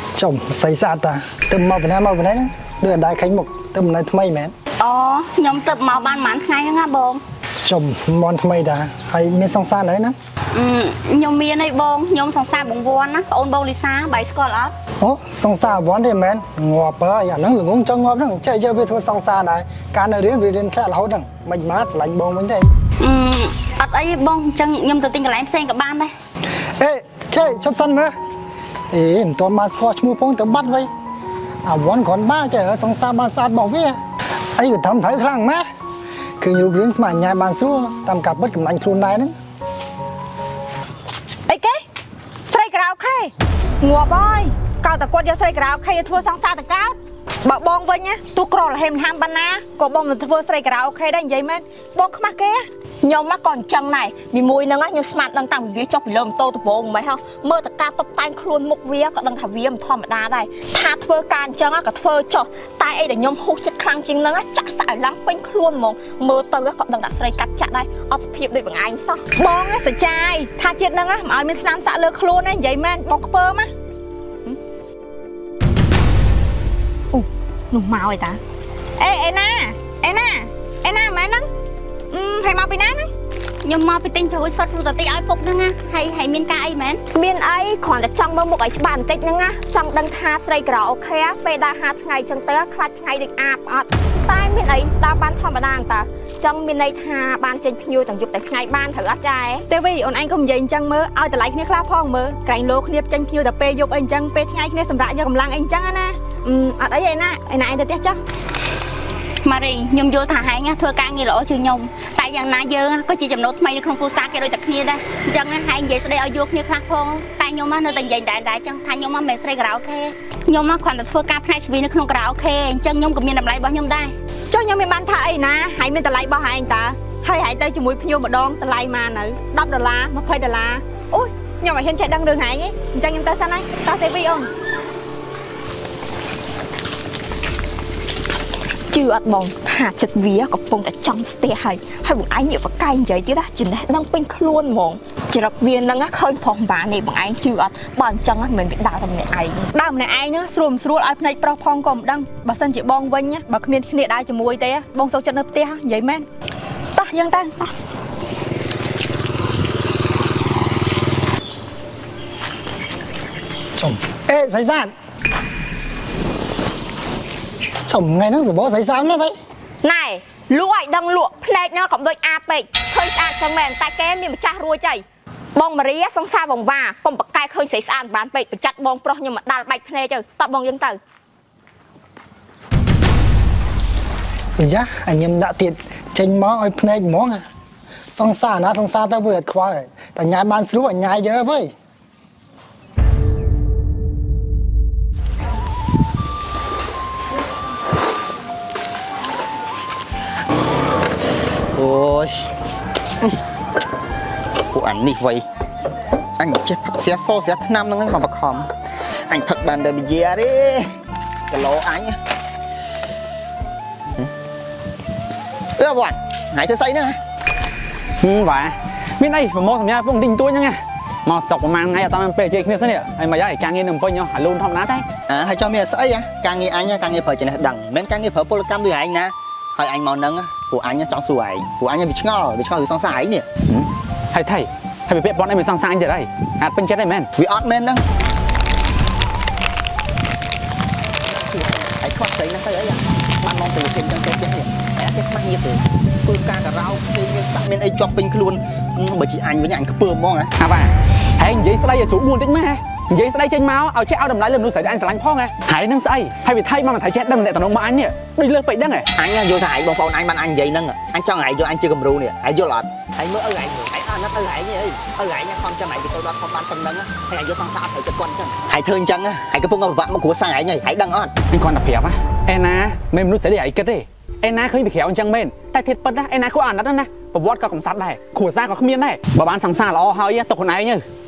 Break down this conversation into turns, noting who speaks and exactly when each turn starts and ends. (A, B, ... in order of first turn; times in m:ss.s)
0:00.2-0:04.5 A
0:04.8-0:07.2 B
0:07.7-0:10.1 A
0:10.6-0:14.7 B
0:15.0-0:22.7 A
0:23.0-0:26.1 B
0:26.8-0:28.1 A
0:28.9-0:30.9 A
0:31.6-0:34.0 A
0:34.6-0:35.6 A
0:36.4-0:39.3 A
0:41.5-0:41.8 C
0:42.5-0:52.6 C
0:53.0-1:09.2 D
1:09.4-1:13.7 C
1:17.1-1:18.4 C
1:19.0-1:21.5 C
1:22.1-1:23.1 C
1:23.6-1:27.0 B
1:27.1-1:39.7 D
1:39.7-1:48.2 C
1:49.4-2:04.1 B
2:04.5-2:14.5 C
2:18.9-2:29.7 D
2:29.8-2:36.3 C
2:37.0-2:37.7 C
2:43.8-2:44.9 A
2:47.9-2:49.3 A
2:49.8-2:55.0 D
2:55.6-3:01.0 D
3:04.6-3:07.4 A
3:08.1-3:11.7 A
3:21.8-3:22.5 E
3:24.7-3:25.4 E
3:26.4-3:28.7 E
3:29.3-3:30.9 E
3:31.5-3:32.2 E
3:35.8-3:37.2 E
3:38.2-3:45.1 F
3:45.3-3:53.5 E
3:53.7-3:57.3 F
3:57.4-3:58.0 E
4:01.3-4:10.5 E
4:10.6-4:19.1 F
4:19.2-4:31.3 E
4:31.5-4:41.0 F